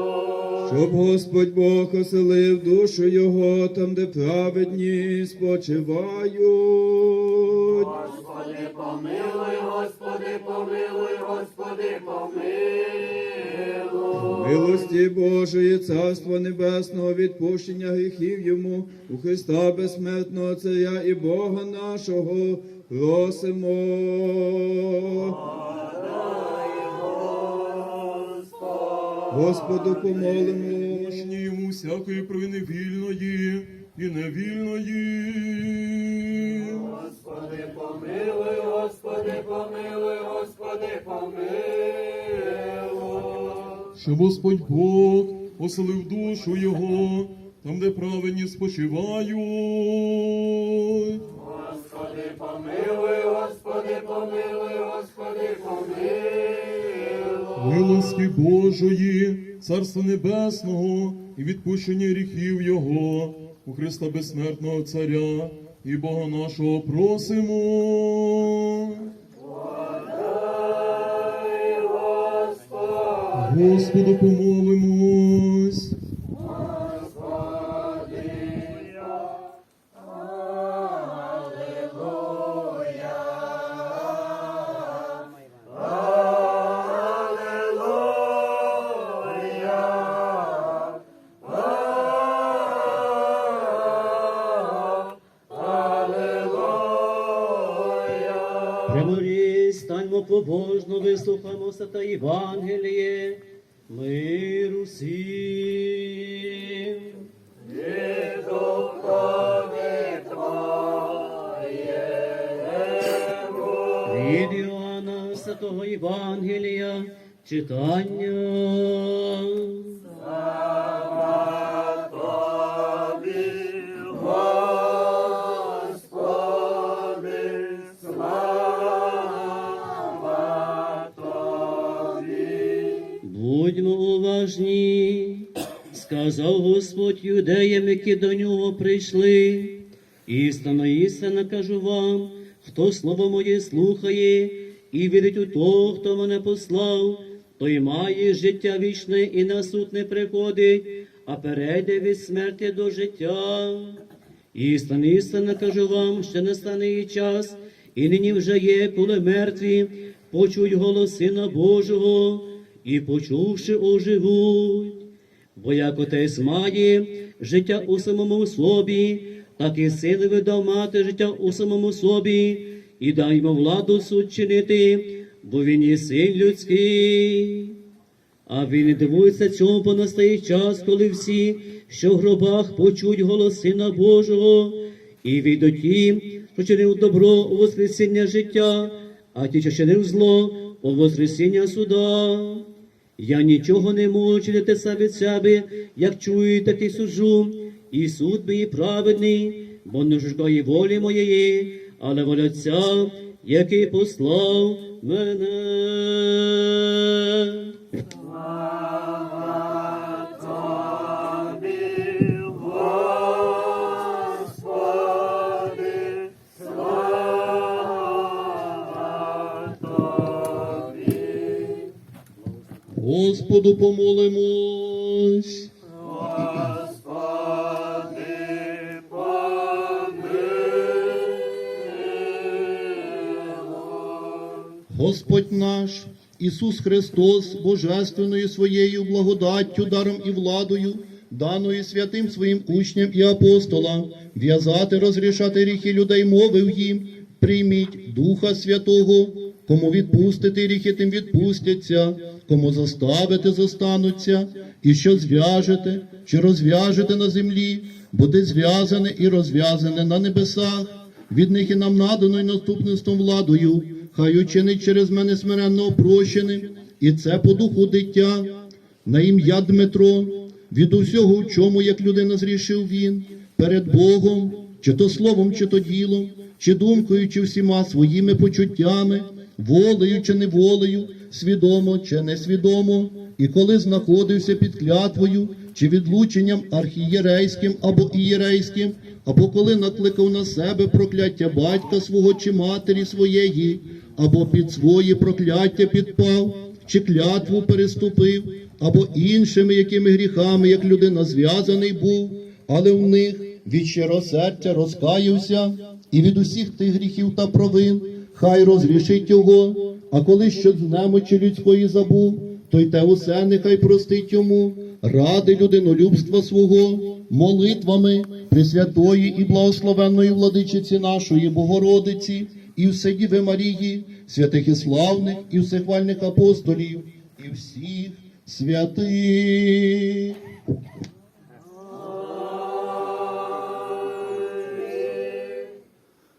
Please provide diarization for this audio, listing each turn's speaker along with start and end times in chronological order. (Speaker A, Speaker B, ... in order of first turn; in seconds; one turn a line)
Speaker A: 0.6-8.0
Speaker B: 8.0-13.4
Speaker A: 14.1-25.4
Speaker A: 29.3-31.3
Speaker C: 30.8-37.0
Speaker B: 37.0-43.5
Speaker C: 44.0-51.2
Speaker B: 51.7-57.0
Speaker C: 57.5-69.1
Speaker C: 73.3-76.0
Speaker D: 98.8-107.2
Speaker B: 108.0-110.4
Speaker D: 114.0-120.0
Speaker D: 133.2-154.0
Speaker D: 154.5-165.0
Speaker D: 165.6-177.8
Speaker D: 178.5-192.7
Speaker D: 193.2-207.7
Speaker E: 222.9-225.7
Speaker B: 226.7-227.2
Speaker B: 228.8-229.0
Speaker B: 229.9-230.2
Speaker E: 234.9-330.4